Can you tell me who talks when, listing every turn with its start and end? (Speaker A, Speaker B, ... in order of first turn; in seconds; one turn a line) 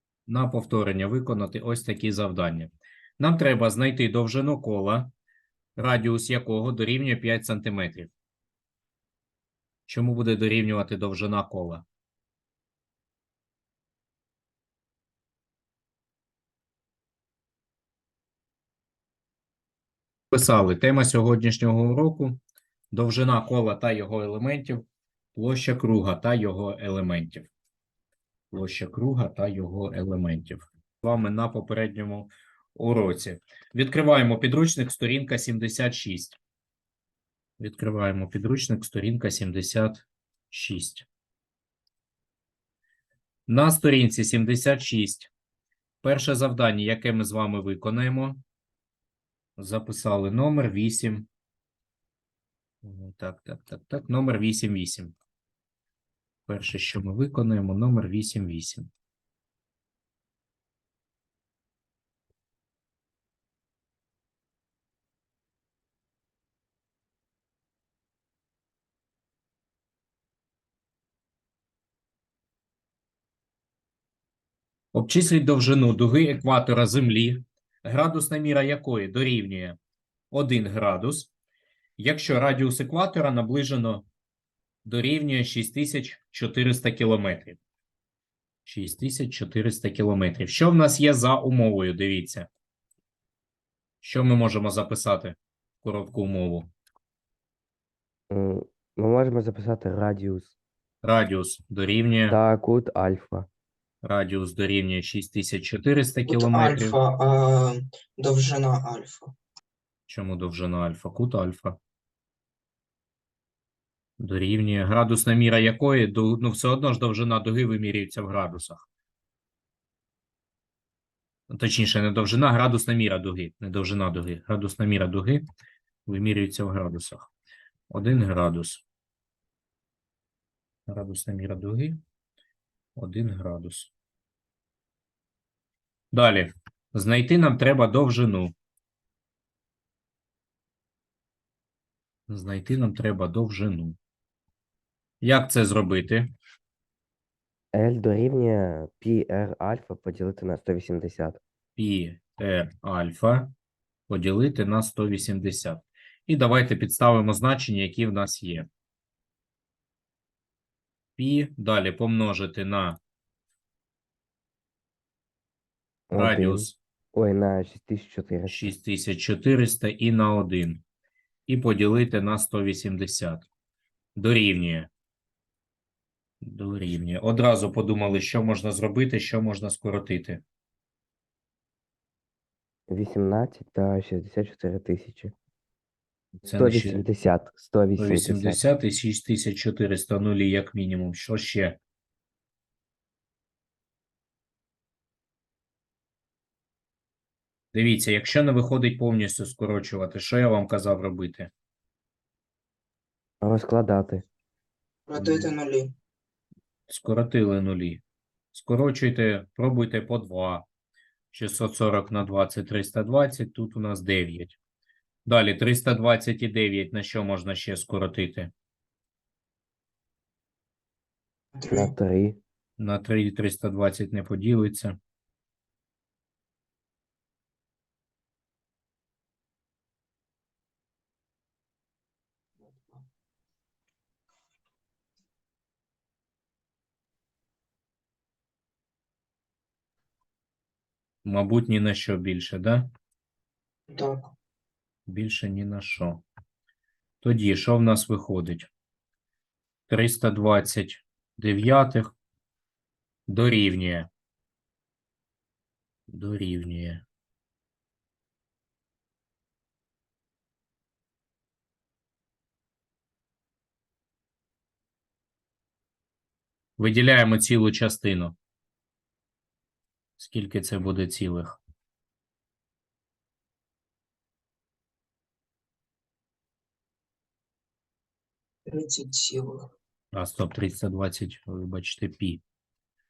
Speaker A: 0.3-5.1
Speaker A: 5.8-8.1
Speaker A: 9.9-11.8
Speaker A: 20.3-22.4
Speaker A: 22.9-24.8
Speaker A: 25.4-27.5
Speaker A: 28.5-36.4
Speaker A: 37.6-41.1
Speaker A: 43.5-45.3
Speaker A: 46.0-48.4
Speaker A: 49.6-51.3
Speaker A: 52.8-55.1
Speaker A: 56.5-58.9
Speaker A: 74.9-79.8
Speaker A: 80.3-81.3
Speaker A: 82.0-84.1
Speaker A: 84.8-87.6
Speaker A: 88.7-92.5
Speaker A: 94.0-96.7
Speaker B: 98.3-100.6
Speaker A: 101.0-102.4
Speaker B: 102.3-103.5
Speaker A: 104.0-107.0
Speaker C: 106.3-109.4
Speaker A: 110.1-111.8
Speaker A: 114.2-118.9
Speaker A: 121.5-125.4
Speaker A: 126.1-127.3
Speaker A: 127.9-128.8
Speaker A: 130.9-132.0
Speaker A: 133.0-133.9
Speaker A: 136.1-138.5
Speaker A: 142.3-144.0
Speaker A: 145.2-146.3
Speaker B: 147.7-151.4
Speaker A: 151.8-153.5
Speaker A: 154.1-158.7
Speaker A: 161.2-163.0
Speaker B: 166.1-168.7
Speaker A: 166.1-166.8
Speaker A: 168.5-170.8
Speaker A: 171.5-173.5
Speaker A: 174.2-174.9
Speaker A: 176.4-180.4
Speaker B: 182.9-185.3
Speaker A: 186.4-187.0
Speaker B: 186.5-188.6
Speaker A: 188.0-191.8
Speaker A: 197.7-201.5
Speaker B: 203.4-204.2
Speaker C: 205.1-205.9
Speaker A: 206.9-208.0
Speaker A: 208.5-210.7
Speaker A: 211.3-214.6
Speaker A: 215.3-218.5
Speaker C: 221.6-221.9
Speaker B: 221.7-222.4
Speaker A: 222.8-225.0
Speaker A: 241.2-242.9
Speaker C: 243.9-244.3
Speaker A: 245.1-246.2
Speaker A: 247.2-248.7
Speaker A: 249.9-252.2
Speaker A: 253.3-254.1
Speaker A: 256.1-257.0
Speaker A: 266.8-268.4
Speaker A: 270.2-271.6
Speaker C: 278.7-279.7
Speaker A: 280.1-282.4